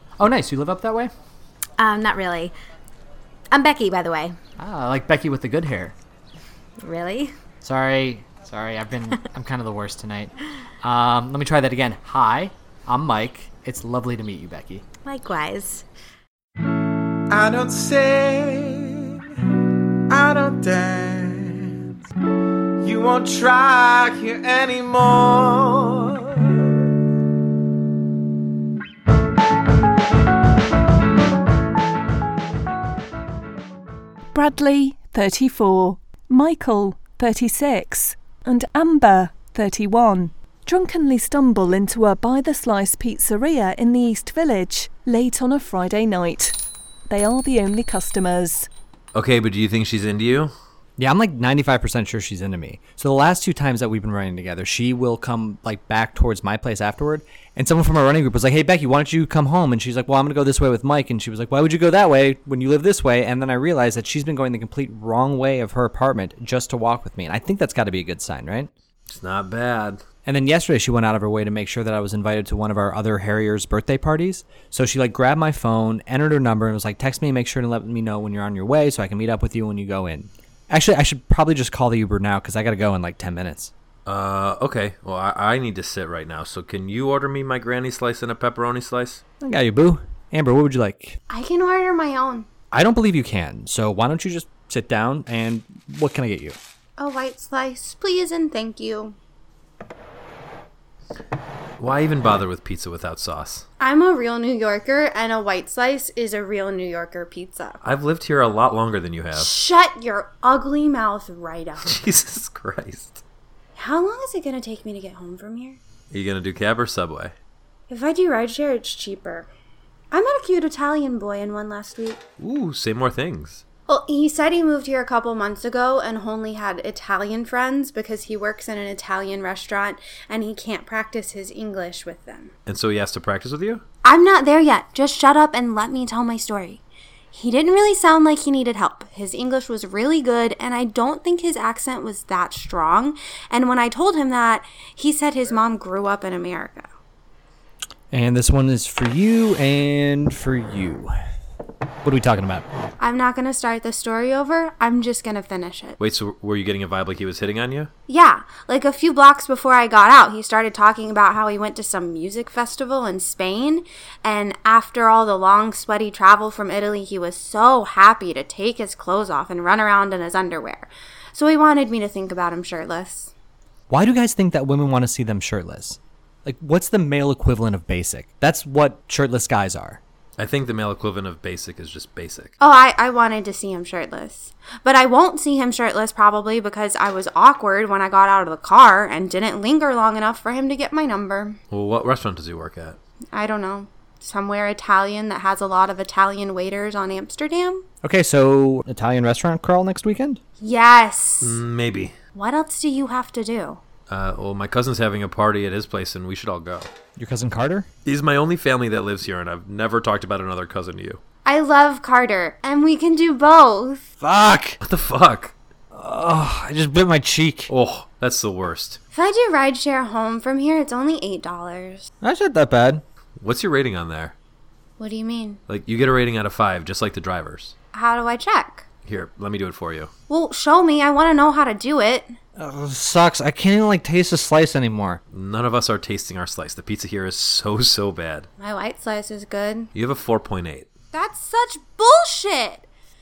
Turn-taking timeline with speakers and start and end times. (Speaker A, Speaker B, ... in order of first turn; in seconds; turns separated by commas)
Speaker A: 0.2-1.1, Speaker B: 1.8-2.5, Speaker B: 3.5-4.3, Speaker A: 4.6-5.9, Speaker B: 6.8-7.3, Speaker A: 7.6-14.8, Speaker B: 15.0-15.8, Speaker C: 17.3-19.2, Speaker C: 20.1-21.8, Speaker C: 22.8-26.4, Speaker D: 34.3-46.6, Speaker D: 47.1-48.7, Speaker E: 49.1-50.5, Speaker A: 51.0-68.7, Speaker E: 69.1-70.0, Speaker A: 70.2-83.7, Speaker E: 84.0-89.2, Speaker A: 89.4-91.2, Speaker F: 91.3-92.5, Speaker A: 92.7-96.6, Speaker F: 97.0-99.2, Speaker E: 101.8-103.6, Speaker F: 103.8-107.8, Speaker E: 107.8-109.5, Speaker F: 109.3-112.0, Speaker E: 111.8-113.2, Speaker F: 113.8-115.8, Speaker E: 116.1-117.3, Speaker F: 117.9-119.5, Speaker F: 120.1-122.2, Speaker E: 122.4-123.6, Speaker F: 123.9-132.5, Speaker E: 132.7-133.8, Speaker F: 134.0-136.8, Speaker F: 137.3-146.9, Speaker A: 148.1-151.1, Speaker A: 152.0-152.7, Speaker F: 153.0-156.0, Speaker E: 156.0-157.9, Speaker F: 158.1-173.3, Speaker A: 173.9-180.0, Speaker E: 180.4-182.5, Speaker F: 182.6-191.6, Speaker E: 191.7-193.0, Speaker F: 193.3-197.8, Speaker A: 198.0-200.4, Speaker F: 200.6-201.6, Speaker E: 201.4-202.1, Speaker F: 202.3-203.8, Speaker E: 204.1-206.9, Speaker A: 207.2-207.9, Speaker E: 208.0-211.2, Speaker F: 211.4-214.1, Speaker A: 214.2-214.8, Speaker E: 214.8-215.5, Speaker A: 215.9-217.7, Speaker E: 217.7-219.0, Speaker F: 219.1-222.1, Speaker A: 222.2-223.0, Speaker E: 223.4-224.3, Speaker F: 225.0-225.6, Speaker E: 225.7-227.7, Speaker F: 227.9-228.8, Speaker E: 229.1-230.1, Speaker F: 230.3-232.3, Speaker A: 232.6-235.2, Speaker E: 235.3-238.5, Speaker F: 238.6-239.9, Speaker E: 239.9-240.9, Speaker F: 241.1-242.9